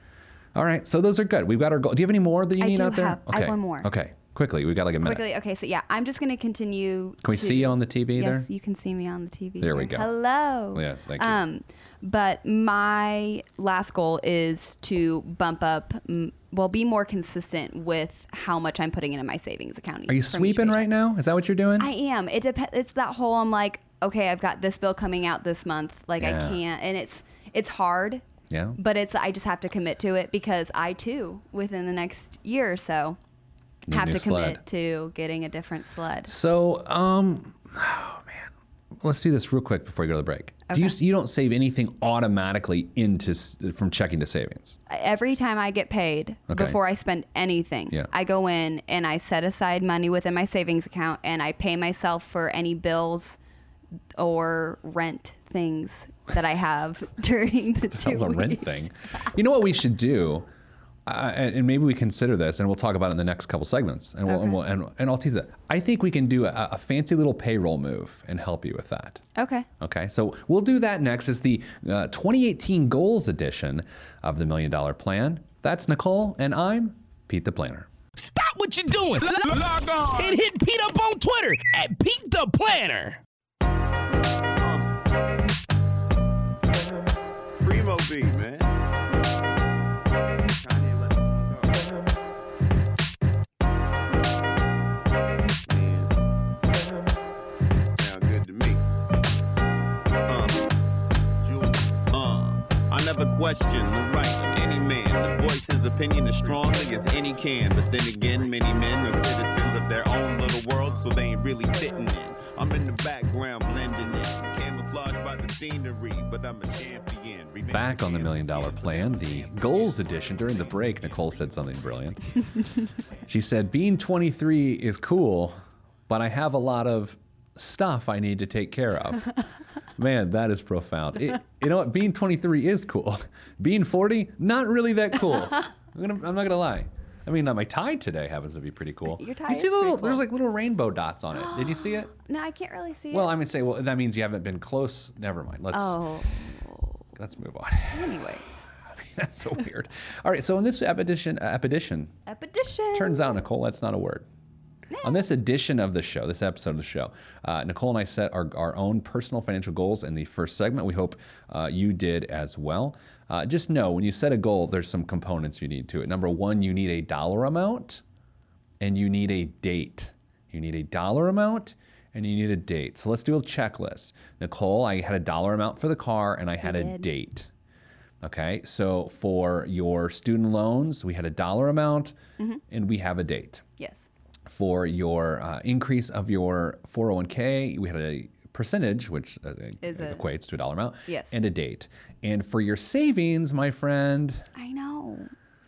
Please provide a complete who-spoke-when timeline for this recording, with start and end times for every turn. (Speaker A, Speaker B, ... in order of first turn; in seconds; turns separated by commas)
Speaker A: 0.5-5.2, Speaker B: 2.6-3.9, Speaker B: 5.0-20.9, Speaker A: 7.2-8.5, Speaker A: 9.6-10.1, Speaker A: 10.7-11.4, Speaker A: 20.1-21.9, Speaker B: 21.8-28.2, Speaker A: 26.2-26.6, Speaker A: 28.5-28.8, Speaker B: 28.8-33.2, Speaker A: 33.9-34.6, Speaker B: 33.9-36.3, Speaker A: 36.3-44.8, Speaker B: 40.7-41.0, Speaker B: 44.9-53.4, Speaker A: 46.5-46.8, Speaker B: 54.2-58.9, Speaker A: 57.9-60.5, Speaker A: 61.1-69.2, Speaker B: 64.3-64.6, Speaker B: 69.4-69.7, Speaker A: 69.8-77.9, Speaker C: 78.2-83.2, Speaker D: 79.5-80.3, Speaker D: 84.6-84.9, Speaker D: 87.6-88.7, Speaker D: 90.5-92.0, Speaker D: 95.7-96.1, Speaker D: 97.8-98.8, Speaker D: 100.3-100.7, Speaker D: 101.4-121.7, Speaker A: 117.7-122.2, Speaker A: 123.3-125.6, Speaker A: 126.1-129.3, Speaker A: 130.0-142.1, Speaker B: 139.1-140.2, Speaker B: 141.3-143.3, Speaker A: 143.1-146.0, Speaker B: 145.7-147.1, Speaker A: 147.2-148.2, Speaker B: 147.9-148.7, Speaker A: 148.9-152.2, Speaker B: 152.3-153.4, Speaker A: 152.9-154.3, Speaker B: 154.9-155.3, Speaker A: 155.0-168.0, Speaker A: 168.8-177.5, Speaker B: 176.6-177.1, Speaker A: 178.2-182.2, Speaker A: 182.7-183.7, Speaker B: 183.8-184.1, Speaker A: 184.5-194.5, Speaker B: 189.8-190.2, Speaker B: 191.1-191.4, Speaker B: 194.6-195.3